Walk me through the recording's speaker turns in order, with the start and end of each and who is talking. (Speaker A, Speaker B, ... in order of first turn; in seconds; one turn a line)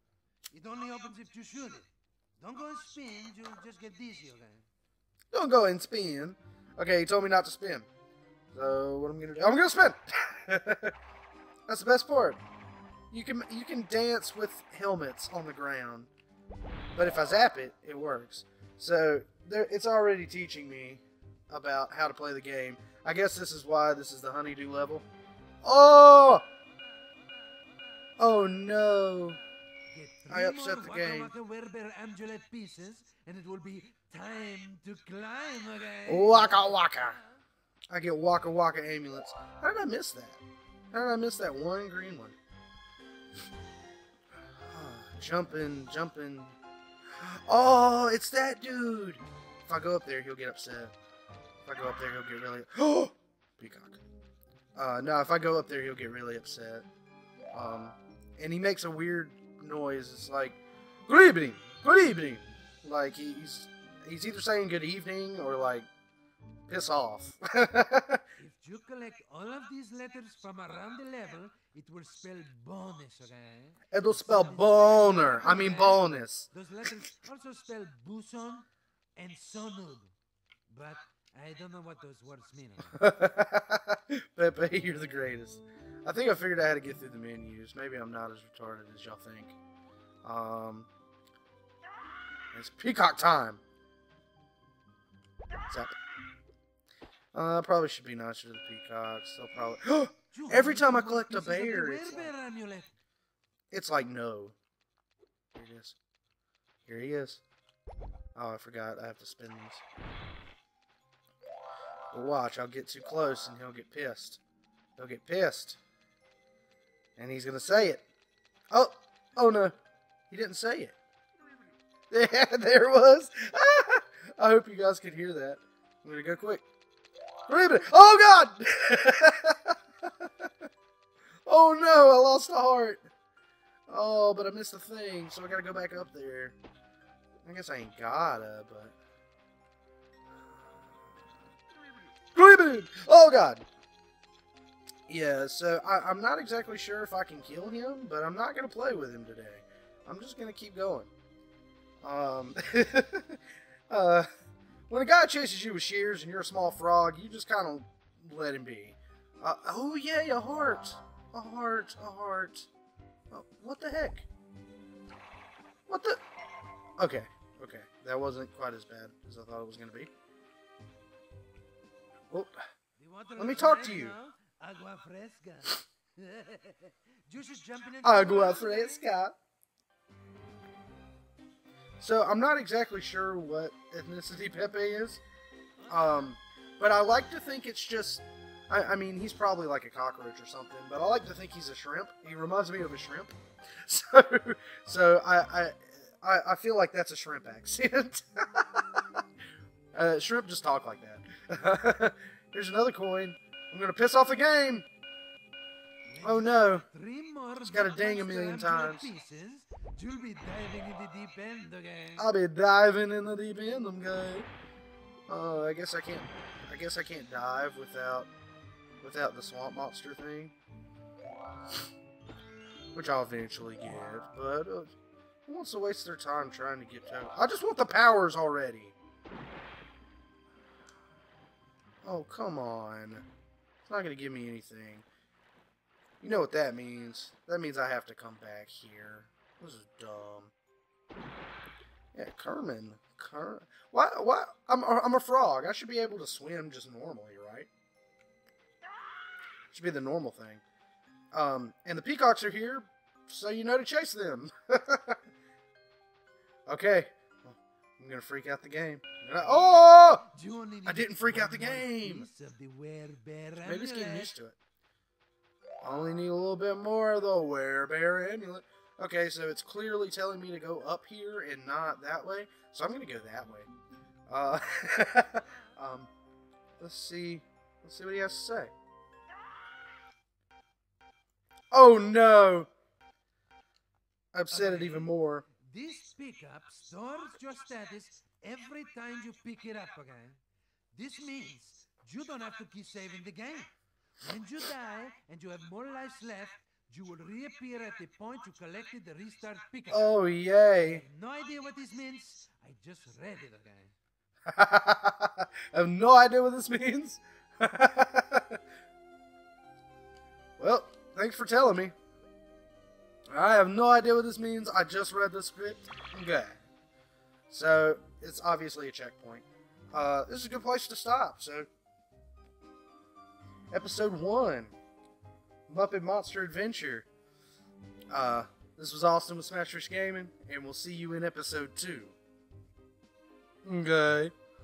Speaker A: 0.5-4.7
Speaker B: 5.3-7.9
Speaker B: 8.5-10.9
Speaker B: 11.7-12.4
Speaker B: 13.1-16.1
Speaker B: 16.9-25.1
Speaker B: 25.6-26.4
Speaker B: 28.2-29.4
Speaker A: 29.9-37.2
Speaker B: 30.3-31.3
Speaker B: 36.0-37.2
Speaker B: 37.9-42.4
Speaker B: 44.7-46.6
Speaker B: 47.2-50.9
Speaker B: 51.6-54.0
Speaker B: 54.8-56.9
Speaker B: 57.5-65.9
Speaker B: 66.7-68.2
Speaker A: 68.4-80.1
Speaker B: 73.9-76.5
Speaker A: 80.7-83.0
Speaker B: 82.9-89.5
Speaker B: 90.2-90.9
Speaker B: 92.5-93.6
Speaker B: 95.7-96.0
Speaker B: 97.3-102.3
Speaker A: 100.3-102.9
Speaker B: 103.7-104.5
Speaker B: 105.5-106.0
Speaker B: 106.8-107.4
Speaker B: 108.3-109.8
Speaker B: 112.1-114.4
Speaker B: 115.0-115.8
Speaker B: 117.2-118.0
Speaker B: 118.7-119.7
Speaker B: 120.3-121.0
Speaker B: 122.1-126.6
Speaker B: 127.5-130.5
Speaker B: 131.4-133.1
Speaker B: 133.9-136.6
Speaker B: 137.4-138.9
Speaker B: 142.3-143.6
Speaker B: 145.1-151.1
Speaker B: 152.0-154.3
Speaker B: 154.9-162.7
Speaker B: 163.3-164.3
Speaker B: 165.9-166.2
Speaker B: 167.0-170.1
Speaker B: 172.3-172.6
Speaker A: 173.0-179.1
Speaker B: 173.4-174.2
Speaker B: 178.0-179.3
Speaker B: 182.0-185.2
Speaker A: 185.8-186.2
Speaker B: 185.9-199.2
Speaker B: 199.9-204.8
Speaker A: 206.1-212.2
Speaker B: 206.2-206.9
Speaker B: 207.6-209.1
Speaker B: 212.2-214.5
Speaker B: 215.3-218.3
Speaker B: 219.0-220.5
Speaker B: 222.9-224.9
Speaker B: 225.4-228.9
Speaker B: 232.0-233.2
Speaker B: 233.8-235.1
Speaker B: 236.2-240.5
Speaker B: 242.1-247.7
Speaker B: 249.7-250.6
Speaker B: 251.3-255.2
Speaker B: 256.7-260.3
Speaker A: 259.4-264.3
Speaker B: 260.8-262.3
Speaker B: 263.6-264.6
Speaker B: 265.8-273.7
Speaker B: 274.3-276.1
Speaker B: 276.8-278.7
Speaker B: 281.7-282.7
Speaker B: 284.3-285.4
Speaker A: 284.5-290.4
Speaker A: 290.9-300.1
Speaker B: 299.9-301.0
Speaker A: 300.8-303.9
Speaker B: 304.5-308.6
Speaker B: 310.6-311.9
Speaker B: 313.3-316.6
Speaker B: 317.5-321.7
Speaker B: 323.7-324.7
Speaker B: 325.7-327.1
Speaker B: 328.1-332.1
Speaker B: 333.6-334.3